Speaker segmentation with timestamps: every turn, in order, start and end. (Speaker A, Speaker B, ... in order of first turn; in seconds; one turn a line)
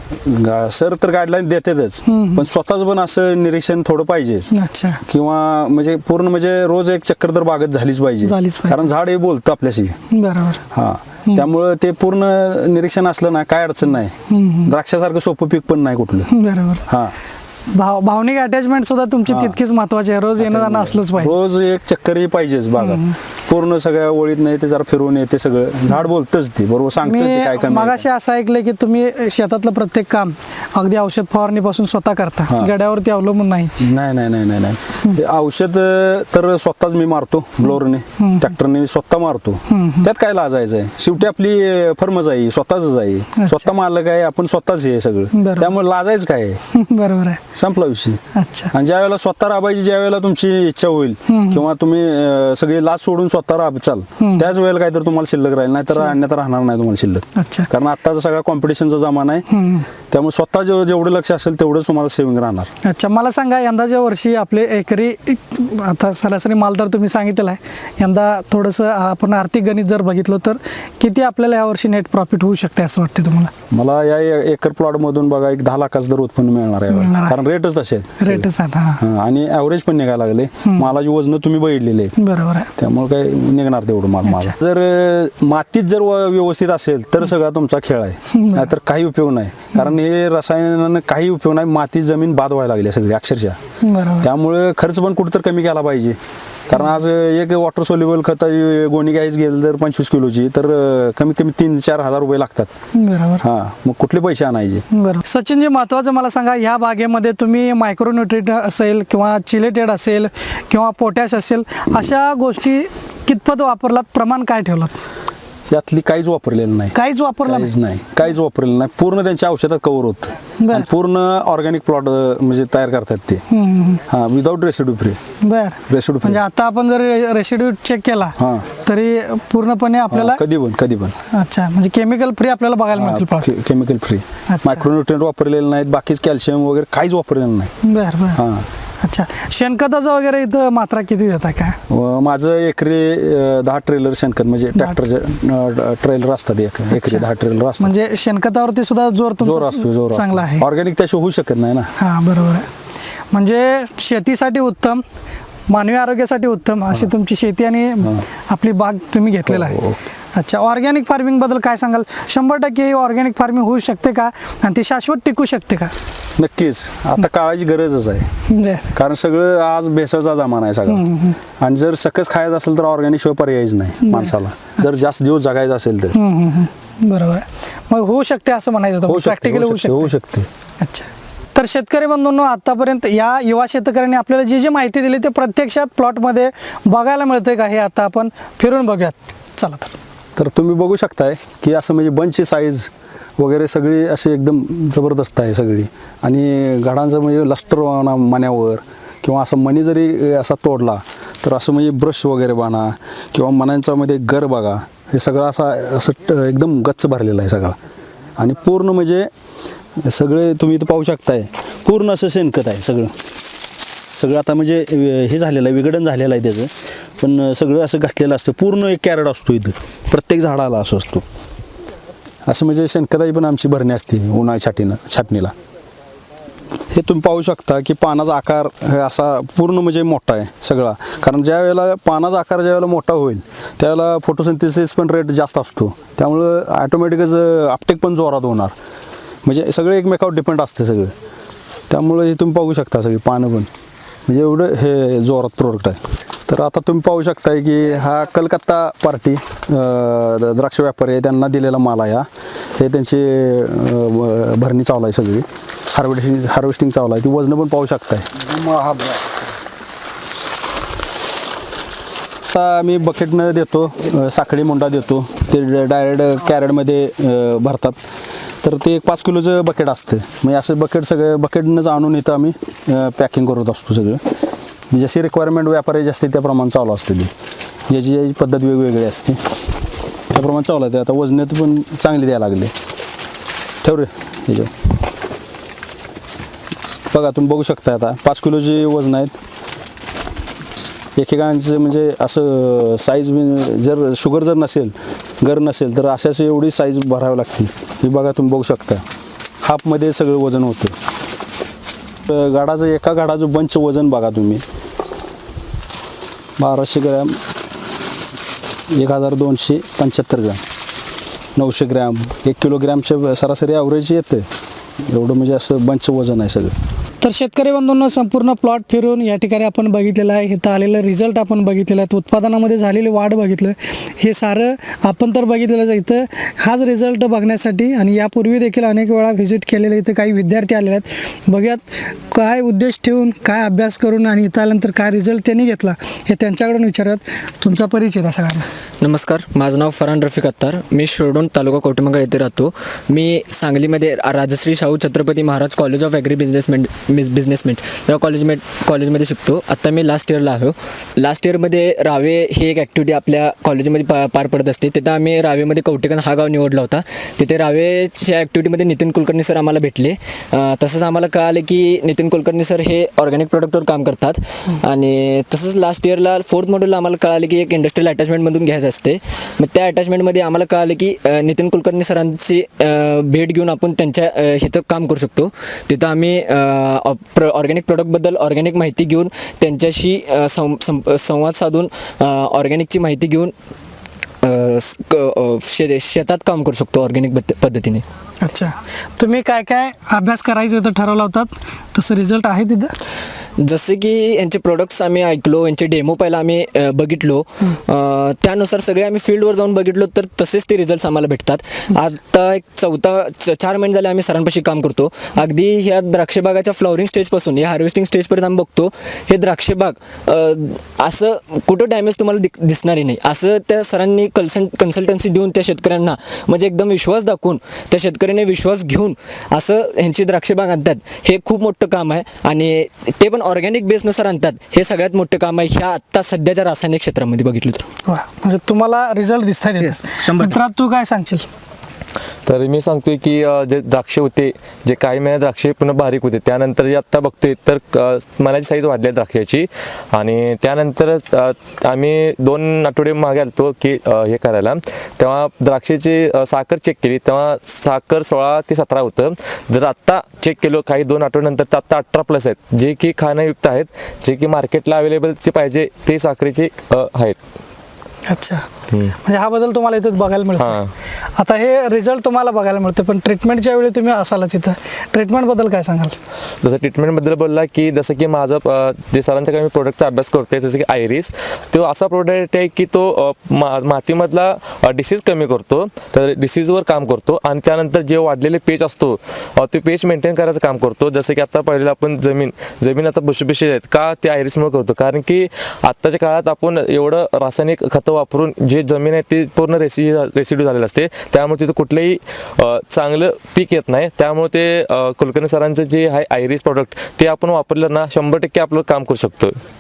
Speaker A: 0.1-4.5
Speaker B: 2.1-2.5
Speaker B: 4.5-5.0
Speaker A: 5.1-10.0
Speaker B: 8.2-8.8
Speaker B: 10.1-10.6
Speaker A: 10.7-16.3
Speaker B: 14.3-14.7
Speaker B: 16.3-16.9
Speaker A: 16.9-17.1
Speaker B: 17.7-21.3
Speaker A: 19.3-19.6
Speaker A: 20.4-28.0
Speaker B: 22.8-23.1
Speaker B: 27.0-33.8
Speaker A: 33.8-46.6
Speaker B: 38.2-38.5
Speaker B: 39.7-40.1
Speaker B: 43.4-43.7
Speaker B: 45.3-45.7
Speaker B: 46.7-47.4
Speaker A: 47.5-48.2
Speaker B: 48.4-48.7
Speaker A: 48.7-59.5
Speaker B: 51.3-51.6
Speaker B: 54.2-54.5
Speaker B: 57.4-57.7
Speaker B: 59.5-59.9
Speaker A: 60.1-62.7
Speaker B: 62.8-73.5
Speaker A: 73.7-82.2
Speaker B: 76.9-77.4
Speaker B: 78.2-79.0
Speaker B: 82.2-82.7
Speaker A: 82.8-93.6
Speaker B: 84.3-84.5
Speaker B: 88.3-88.7
Speaker B: 93.8-94.3
Speaker A: 94.2-96.2
Speaker A: 96.7-102.7
Speaker B: 102.9-103.4
Speaker A: 103.4-104.9
Speaker B: 104.9-115.0
Speaker A: 115.7-123.4
Speaker B: 116.9-117.7
Speaker B: 120.6-120.9
Speaker B: 123.5-124.0
Speaker A: 124.1-125.2
Speaker B: 125.4-130.4
Speaker A: 125.9-126.4
Speaker A: 128.4-128.7
Speaker A: 130.1-131.2
Speaker B: 131.3-133.5
Speaker A: 132.9-137.7
Speaker B: 134.5-134.8
Speaker B: 137.8-138.4
Speaker A: 138.3-138.7
Speaker B: 139.0-141.8
Speaker A: 141.9-147.9
Speaker B: 146.9-147.3
Speaker B: 147.8-150.6
Speaker A: 149.4-151.9
Speaker B: 152.0-152.7
Speaker B: 153.3-155.0
Speaker B: 155.7-159.8
Speaker A: 159.5-160.0
Speaker B: 160.3-165.9
Speaker A: 166.4-168.3
Speaker B: 168.5-168.9
Speaker A: 168.9-171.1
Speaker B: 170.9-171.4
Speaker A: 171.6-176.2
Speaker B: 174.0-174.3
Speaker B: 176.1-180.1
Speaker A: 179.1-180.5
Speaker B: 180.8-190.0
Speaker A: 190.4-207.8
Speaker A: 208.4-209.3
Speaker A: 210.0-213.1
Speaker A: 214.2-221.2
Speaker A: 222.5-225.5
Speaker A: 226.9-238.8
Speaker A: 239.4-241.1
Speaker A: 241.9-243.7
Speaker A: 244.3-259.2
Speaker A: 262.5-268.0
Speaker A: 268.6-274.2
Speaker A: 274.9-277.3
Speaker A: 277.9-279.6
Speaker A: 280.3-282.7
Speaker A: 283.8-284.7
Speaker A: 287.1-289.4
Speaker A: 291.2-299.0
Speaker A: 299.6-300.9
Speaker A: 302.3-304.6
Speaker A: 306.6-307.4
Speaker A: 308.9-310.6
Speaker A: 311.6-314.5
Speaker A: 315.1-316.7
Speaker B: 317.2-338.7
Speaker C: 339.0-383.5
Speaker C: 384.4-388.0
Speaker B: 388.4-392.9
Speaker C: 393.6-427.9
Speaker B: 428.1-431.4
Speaker C: 430.0-430.6
Speaker D: 432.5-457.4
Speaker B: 458.3-458.6
Speaker B: 459.2-460.8
Speaker D: 460.6-460.9
Speaker B: 461.4-466.1
Speaker D: 466.6-499.6